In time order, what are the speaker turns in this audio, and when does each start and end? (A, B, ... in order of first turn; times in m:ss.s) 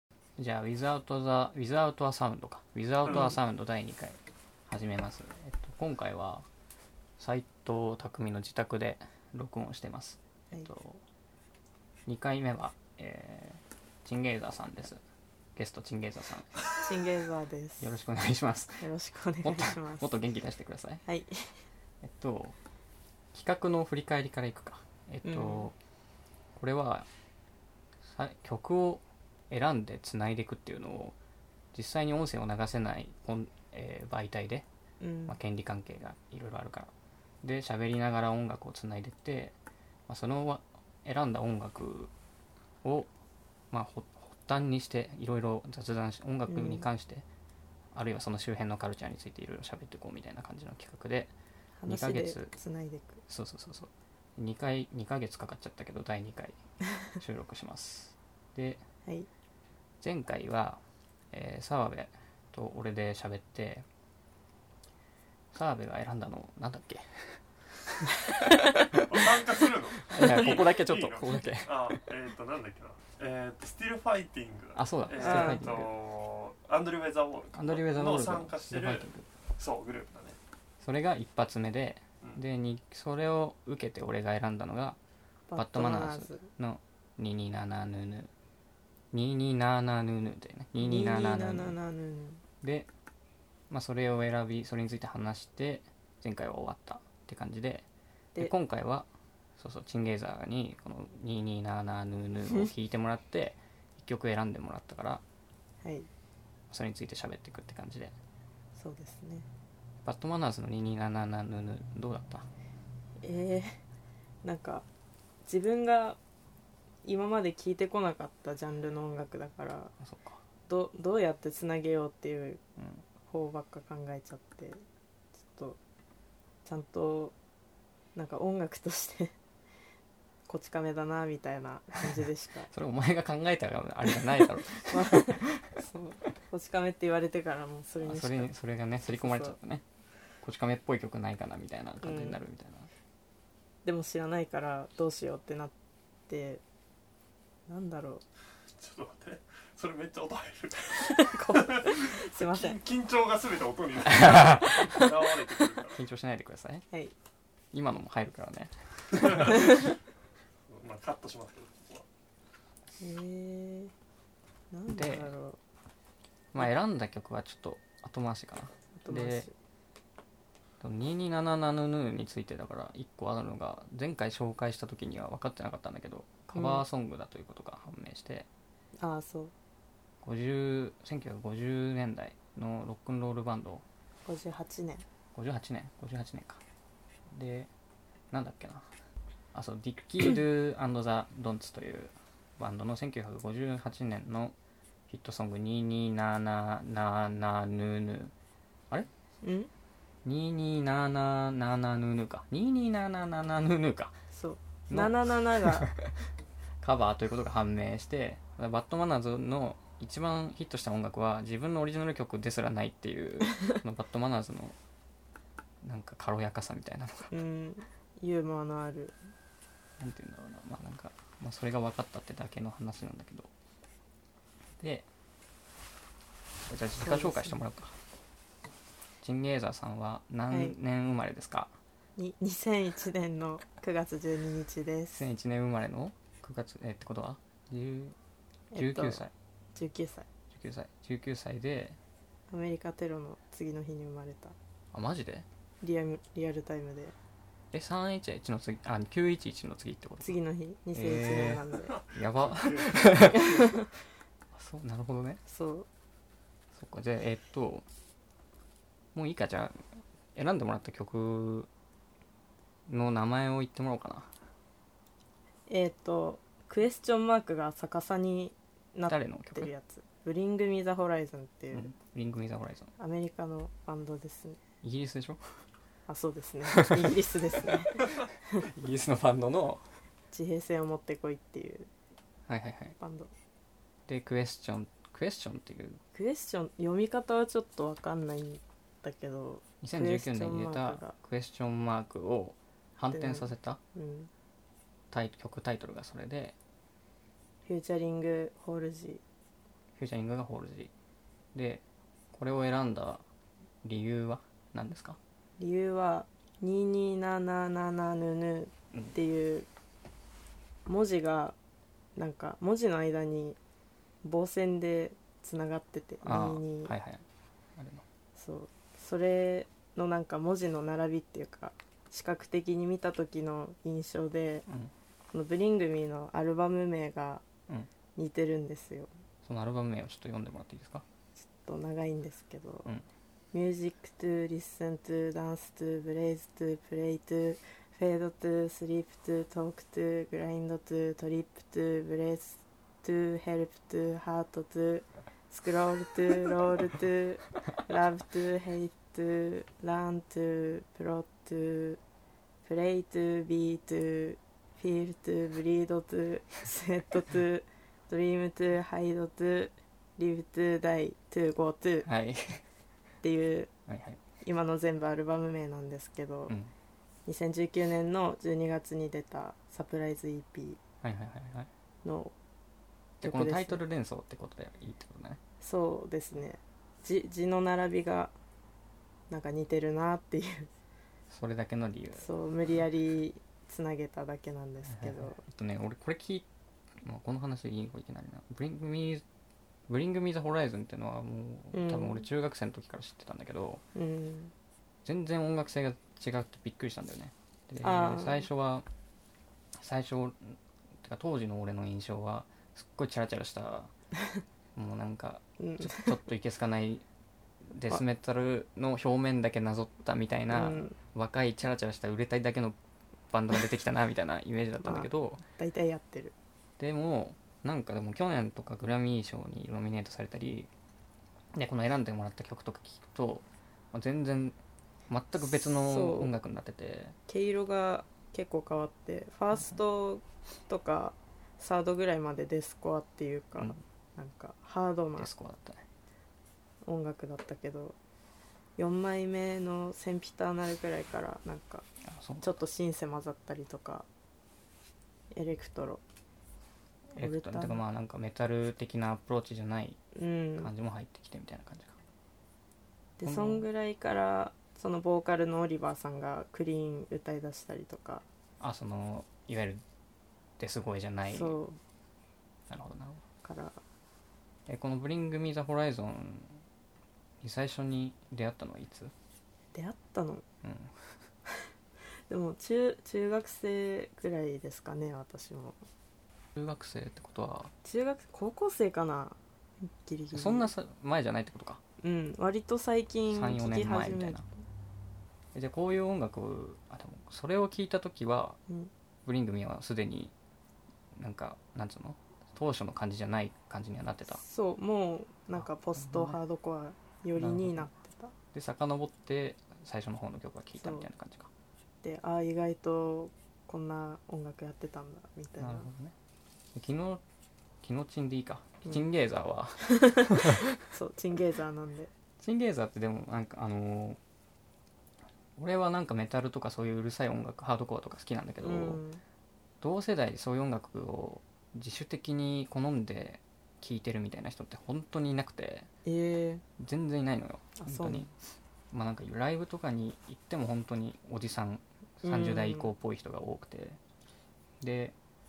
0:00.4-0:06.5 A
0:03.1-0:03.3 B
0:07.2-0:11.0 A
0:12.1-0:15.0 A
0:15.6-0:16.5 A
0:16.8-0:17.9 C
0:17.8-0:18.9 A
0:18.8-0:20.1 C
0:19.4-0:21.0 A
0:21.1-0:21.6 C
0:22.0-0:22.6 A
0:23.3-0:25.8 A
0:25.2-0:25.7 C
0:26.6-0:27.1 A
0:28.0-0:31.2 A
0:31.7-0:34.7 A
0:35.0-0:35.4 C
0:35.3-0:36.9 A
0:37.4-0:39.6 A
0:40.1-0:42.1 A
0:42.8-0:43.1 A
0:43.7-0:47.3 A
0:46.5-0:46.8 C
0:47.9-0:51.3 A
0:51.8-0:53.2 C
0:51.9-0:52.5 A
0:53.3-0:56.6 A
0:57.1-0:58.8 A
1:00.0-1:00.8 A
1:01.3-1:03.8 A
1:05.5-1:09.3 A
1:08.9-1:19.1 B
1:10.1-1:12.1 A
1:14.8-1:15.9 A
1:15.2-1:15.7 C
1:17.5-1:19.3 A
1:19.6-1:20.4 B
1:20.8-1:25.0 A
1:25.5-1:26.5 C
1:25.6-1:28.3 A
1:29.1-1:31.8 A
1:30.8-1:32.4 C
1:32.6-1:32.9 A
1:33.7-1:37.9 A
1:38.4-1:45.2 A
1:45.8-1:46.1 C
1:46.7-1:48.2 A
1:48.8-1:49.5 C
1:50.0-1:52.5 A
1:53.2-1:53.8 C
1:54.4-1:54.9 C
1:55.5-1:56.2 C
1:57.0-1:59.9 C
2:00.0-2:00.4 A
2:00.7-2:02.6 C
2:02.8-2:03.0 A
2:03.3-2:04.8 C
2:05.4-2:05.8 C
2:06.6-2:07.4 C
2:08.2-2:09.3 C
2:10.5-2:12.7 C
2:12.7-2:15.7 A
2:14.9-2:18.5 C
2:18.0-2:19.8 A
2:19.1-2:19.6 C
2:20.4-2:22.9 A
2:22.0-2:22.4 C
2:23.8-2:25.8 C
2:26.3-2:26.6 C
2:27.7-2:28.2 C
2:28.8-2:36.0 B
2:31.0-2:32.8 C
2:34.1-2:35.1 A
2:35.9-2:36.8 A
2:37.7-2:39.7 A
2:40.7-2:42.1 B
2:43.0-2:43.9 C
2:44.7-2:45.6 C
2:44.9-2:45.3 A
2:46.5-2:49.5 A
2:49.0-2:49.5 C
2:50.8-2:58.5 A
2:56.5-2:56.8 C
2:59.0-2:59.5 C
3:00.2-3:03.8 A
3:04.3-3:05.0 C
3:05.4-3:06.6 A
3:07.3-3:07.7 A
3:08.3-3:08.9 A
3:09.5-3:14.6 A
3:15.1-3:18.3 A
3:19.4-3:19.7 C
3:20.2-3:24.2 A
3:24.3-3:25.9 C
3:24.9-3:26.3 A
3:26.8-3:34.8 A
3:35.8-3:37.4 A
3:37.3-3:39.2 C
3:40.0-3:43.5 A
3:44.8-3:45.1 A
3:46.7-3:48.0 A
3:47.0-3:47.6 C
3:49.2-3:51.7 A
3:52.2-3:55.2 C
3:55.1-3:58.2 A
3:58.7-3:59.2 C
3:58.8-3:59.3 A
3:59.8-4:00.3 C
4:00.5-4:02.0 A
4:02.5-4:04.6 C
4:04.9-4:05.5 A
4:05.8-4:07.2 C
4:07.7-4:10.4 A
4:10.2-4:12.0 C
4:10.9-4:13.7 A
4:11.9-4:13.5 B
4:13.4-4:13.8 C
4:14.5-4:15.4 A
4:15.5-4:15.9 C
4:16.7-4:17.8 A
4:19.1-4:21.7 A
4:22.9-4:24.3 A
4:25.7-4:31.9 C
4:29.1-4:29.7 A
4:31.7-4:32.9 A
4:33.0-4:34.6 C
4:34.8-4:35.4 A
4:36.1-4:38.7 C
4:36.7-4:37.1 A
4:38.6-4:39.8 A
4:40.3-4:41.9 C
4:42.5-4:43.0 A
4:43.0-4:43.3 C
4:44.1-4:46.0 A
4:46.1-4:51.2 C
4:49.8-4:53.8 A
4:53.1-4:54.3 C
4:55.1-4:56.6 A
4:57.6-4:59.2 C
5:00.0-5:00.9 A
5:01.5-5:03.2 A
5:03.8-5:05.2 A
5:05.6-5:09.7 C
5:10.9-5:11.6 C
5:12.2-5:13.6 C
5:14.2-5:16.9 C
5:16.2-5:17.2 A
5:17.8-5:18.0 A
5:18.4-5:24.7 C
5:24.7-5:24.9 A
5:25.3-5:27.4 C
5:28.2-5:29.1 C
5:29.4-5:31.0 A
5:31.6-5:32.9 C
5:33.5-5:52.0 C
5:52.6-6:02.1 C
6:02.0-6:02.6 A
6:03.2-6:03.7 C
6:03.9-6:04.2 A
6:04.4-6:06.6 C
6:07.3-6:10.8 C
6:11.0-6:11.7 A
6:12.0-6:12.3 C
6:13.2-6:15.4 A
6:13.2-6:13.8 C
6:15.6-6:18.3 C
6:19.3-6:20.7 C
6:21.3-6:22.3 A
6:22.2-6:25.4 C
6:24.9-6:26.5 A
6:27.0-6:29.2 A
6:29.9-6:33.8 A
6:31.7-6:32.3 C
6:34.0-6:34.5 C
6:35.0-6:38.9 A
6:37.8-6:38.5 C
6:39.8-6:43.9 A
6:44.8-6:47.0 A
6:45.6-6:46.2 C
6:47.7-6:52.8 A
6:50.5-6:51.0 C
6:53.3-6:55.4 A
6:54.8-6:56.3 C
6:56.8-7:00.7 A
7:01.5-7:04.6 A
7:05.1-7:07.2 A
7:05.7-7:06.3 C
7:07.3-7:15.3 C
7:09.5-7:09.8 A
7:15.2-7:15.8 A
7:16.8-7:18.0 C
7:18.8-7:21.9 C
7:22.0-7:22.6 A
7:22.4-7:24.1 C
7:25.3-7:26.0 C
7:27.2-7:30.0 A
7:27.2-7:27.8 C
7:30.2-7:30.7 C
7:30.6-7:32.0 A
7:33.2-7:38.2 C
7:33.2-7:33.6 A
7:38.6-7:39.8 A
7:40.6-7:41.6 A
7:41.3-7:41.8 C
7:42.7-7:43.2 A
7:43.4-7:43.8 C
7:44.7-7:46.6 A
7:47.4-7:49.1 A
7:49.7-7:50.4 C
7:50.6-7:51.0 A
7:52.3-7:55.8 C
7:56.6-7:57.7 A
7:57.8-8:00.7 C
8:00.3-8:01.8 A
8:02.0-8:04.5 C
8:03.3-8:04.4 A
8:05.5-8:08.6 A
8:09.2-8:10.3 A
8:11.2-8:14.4 A
8:14.4-8:18.3 C
8:15.5-8:16.4 A
8:17.4-8:17.9 A
8:18.5-8:21.5 A
8:20.8-8:21.1 C
8:22.0-8:25.9 C
8:25.6-8:26.2 A
8:26.8-8:27.2 A
8:27.8-8:30.8 A
8:29.9-8:32.1 C
8:32.4-8:34.2 A
8:35.6-8:39.0 A
8:38.6-8:39.2 C
8:39.8-8:45.9 A
8:46.0-8:46.6 C
8:46.8-8:48.4 A
8:47.8-8:48.3 C
8:48.9-8:54.0 A
8:52.2-8:52.9 C
8:54.8-8:55.2 A